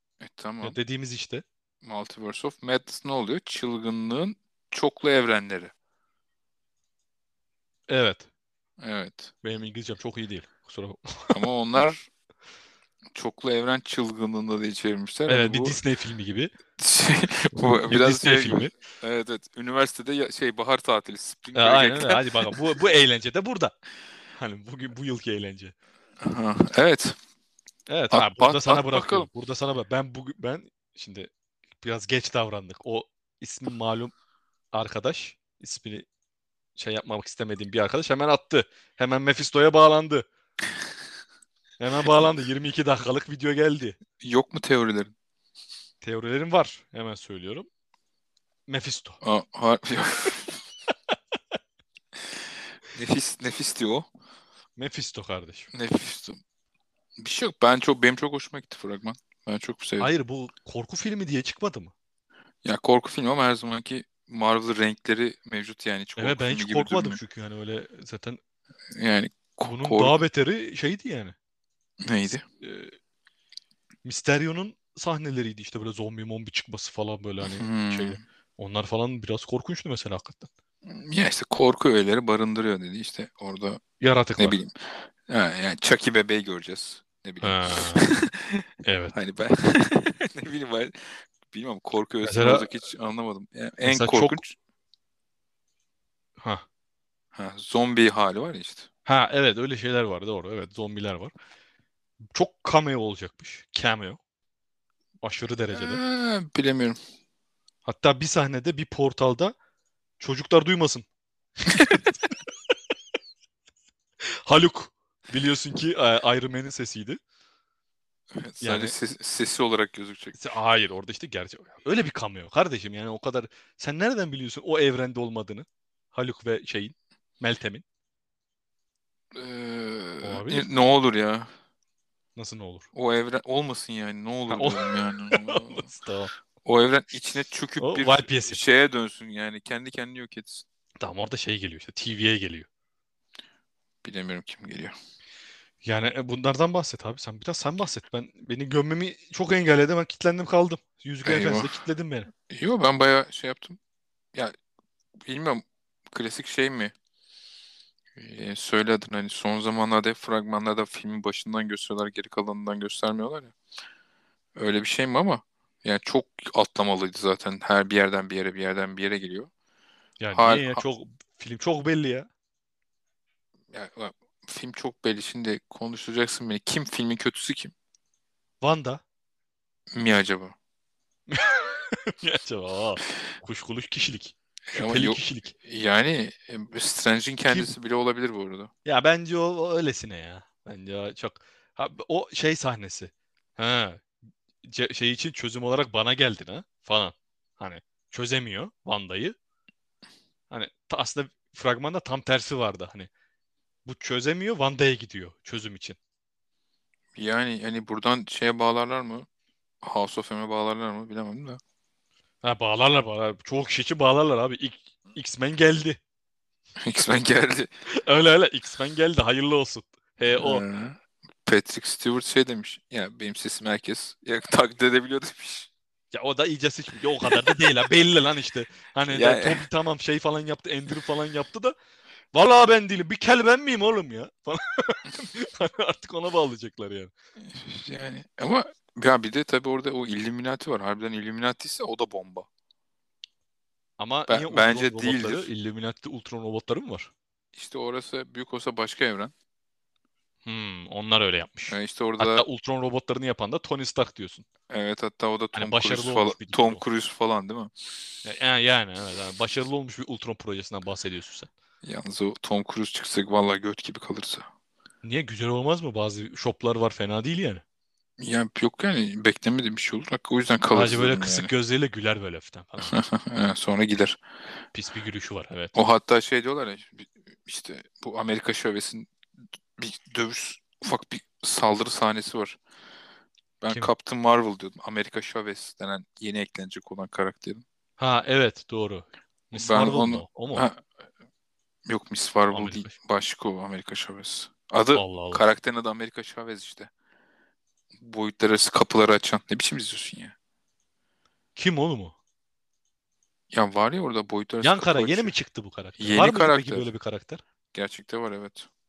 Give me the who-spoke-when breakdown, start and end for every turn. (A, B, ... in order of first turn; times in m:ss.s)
0:00.2-0:00.8 A
0:00.6-0:01.4 B
0:01.8-0:05.7 A
0:07.9-0:08.3 B
0:08.8-0:09.3 A
0:09.4-0:11.4 B
0:11.3-0:12.1 A
0:13.1-0:15.8 A
0:15.3-0:16.5 B
0:16.8-0:22.5 A
0:17.6-0:18.7 B
0:21.6-0:23.8 B
0:24.4-0:25.8 B
0:26.2-0:27.2 A
0:27.9-0:34.1 B
0:28.1-0:29.3 A
0:34.7-0:36.1 B
0:36.8-0:40.3 B
0:41.8-0:44.0 B
0:44.2-0:45.1 A
0:46.0-0:47.7 B
0:48.7-0:49.2 B
0:49.2-0:50.6 A
0:52.9-0:54.1 A
0:54.8-0:55.7 B
0:55.7-0:56.4 A
0:57.2-1:00.1 A
1:00.0-1:01.9 B
1:02.6-1:07.2 A
1:06.2-1:08.4 B
1:08.9-1:10.2 A
1:09.6-1:11.4 B
1:12.0-1:12.4 A
1:12.6-1:13.0 B
1:14.0-1:20.5 B
1:17.5-1:18.2 A
1:20.8-1:23.8 A
1:24.0-1:24.6 B
1:24.4-1:34.5 A
1:27.4-1:28.1 B
1:28.8-1:29.2 B
1:32.2-1:32.7 B
1:33.8-1:34.4 B
1:37.3-1:38.9 A
1:39.0-1:41.3 B
1:42.3-1:44.2 B
1:45.2-1:46.0 B
1:45.7-1:47.0 A
1:47.8-1:49.6 B
1:50.2-1:51.1 B
1:51.7-1:52.0 B
1:54.4-1:57.2 B
1:58.3-2:00.4 A
1:58.6-1:58.9 B
2:00.4-2:07.8 B
2:09.3-2:11.5 A
2:10.2-2:10.7 B
2:12.4-2:12.9 B
2:12.9-2:15.9 A
2:14.5-2:16.3 B
2:16.6-2:20.6 A
2:17.8-2:18.6 B
2:21.0-2:22.7 B
2:24.0-2:24.9 A
2:25.8-2:32.3 B
2:31.2-2:31.8 A
2:32.5-2:33.8 A
2:35.2-2:36.9 A
2:38.2-2:43.5 A
2:44.6-2:49.5 A
2:50.2-2:52.3 B
2:50.3-2:50.8 A
2:53.7-2:57.7 A
2:58.6-2:59.0 B
2:59.9-3:00.6 A
3:01.3-3:05.6 B
3:04.7-3:08.7 A
3:08.8-3:14.1 B
3:14.6-3:19.4 B
3:20.5-3:23.1 B
3:23.9-3:26.0 B
3:27.2-3:29.3 A
3:29.8-3:31.6 A
3:32.4-3:36.0 B
3:36.8-3:37.7 A
3:37.9-3:40.6 B
3:40.3-3:45.7 A
3:46.1-3:51.8 B
3:47.3-3:47.6 A
3:49.1-3:49.7 A
3:52.3-3:57.1 B
3:57.4-4:02.5 A
4:04.0-4:07.1 B
4:04.3-4:05.5 A
4:07.6-4:09.3 A
4:10.4-4:14.5 B
4:11.7-4:12.4 A
4:14.7-4:17.7 A
4:15.5-4:16.8 B
4:18.2-4:21.5 B
4:21.8-4:24.5 A
4:25.0-4:27.6 B
4:28.2-4:31.5 A
4:30.7-4:33.0 B
4:32.8-4:34.2 A
4:34.7-4:35.8 B
4:35.7-4:39.1 A
4:39.8-4:42.6 A
4:43.6-4:47.6 A
4:48.0-4:50.7 B
4:49.5-4:50.9 A
4:51.9-4:56.9 A
4:52.5-4:52.9 B
4:55.0-4:55.4 B
4:58.0-5:00.4 A
5:01.6-5:02.2 B
5:03.5-5:05.3 A
5:04.6-5:07.4 B
5:06.0-5:06.9 A
5:07.7-5:08.7 A